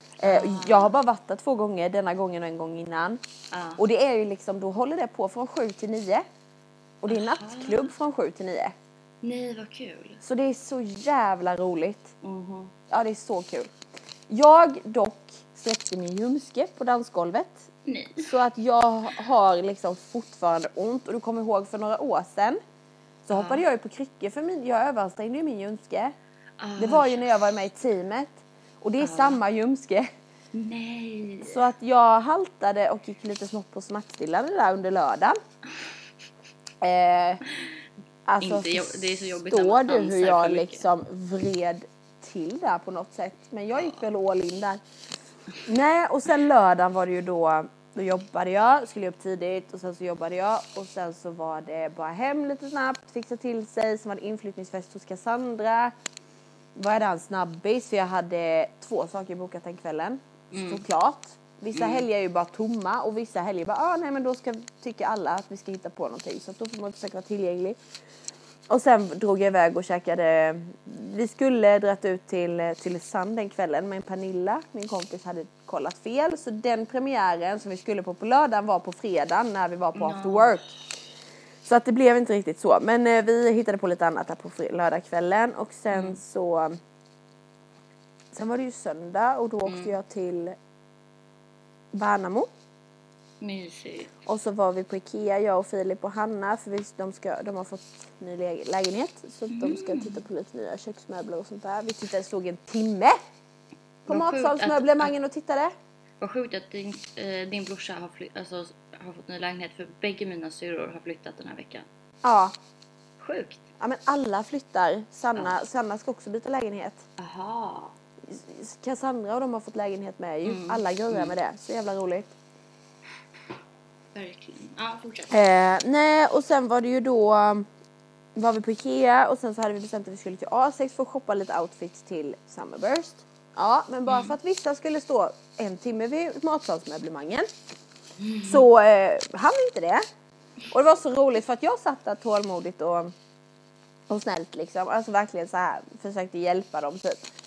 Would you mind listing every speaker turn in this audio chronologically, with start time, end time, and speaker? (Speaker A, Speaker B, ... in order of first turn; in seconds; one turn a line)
Speaker A: 0.2-3.2
Speaker B: 0.2-0.9
Speaker B: 3.5-3.8
Speaker A: 3.8-6.2
Speaker A: 7.0-8.8
Speaker B: 7.1-7.9
Speaker B: 9.2-10.2
Speaker A: 10.2-12.1
Speaker B: 12.2-12.7
Speaker A: 12.9-13.7
Speaker A: 14.3-17.7
Speaker B: 17.9-18.4
Speaker A: 18.2-22.6
Speaker A: 23.3-26.1
Speaker B: 23.3-23.6
Speaker B: 26.6-27.6
Speaker A: 26.8-30.1
Speaker B: 29.0-29.4
Speaker B: 30.5-31.6
Speaker A: 31.4-35.4
Speaker A: 36.8-37.4
Speaker A: 38.3-44.8
Speaker B: 38.4-40.9
Speaker A: 45.7-55.9
Speaker A: 56.8-67.8
Speaker B: 60.5-60.8
Speaker B: 61.7-62.1
Speaker A: 68.7-80.8
Speaker B: 80.0-80.7
Speaker A: 81.6-86.8
Speaker B: 85.9-86.2
Speaker A: 88.3-90.5
Speaker B: 89.7-90.0
Speaker A: 91.9-92.5
Speaker B: 93.4-94.1
Speaker A: 94.3-103.2
Speaker B: 99.5-100.2
Speaker A: 104.1-105.7
Speaker B: 104.1-105.1
Speaker B: 106.2-111.9
Speaker A: 112.2-112.5
Speaker B: 113.2-113.7
Speaker A: 113.8-117.0
Speaker B: 117.2-118.0
Speaker A: 118.2-122.3
Speaker B: 120.4-121.4
Speaker B: 124.2-125.4
Speaker A: 125.3-127.7
Speaker A: 128.4-137.5
Speaker B: 134.1-134.3
Speaker B: 138.2-138.7
Speaker A: 138.4-140.0
Speaker A: 140.7-143.1
Speaker A: 144.1-147.3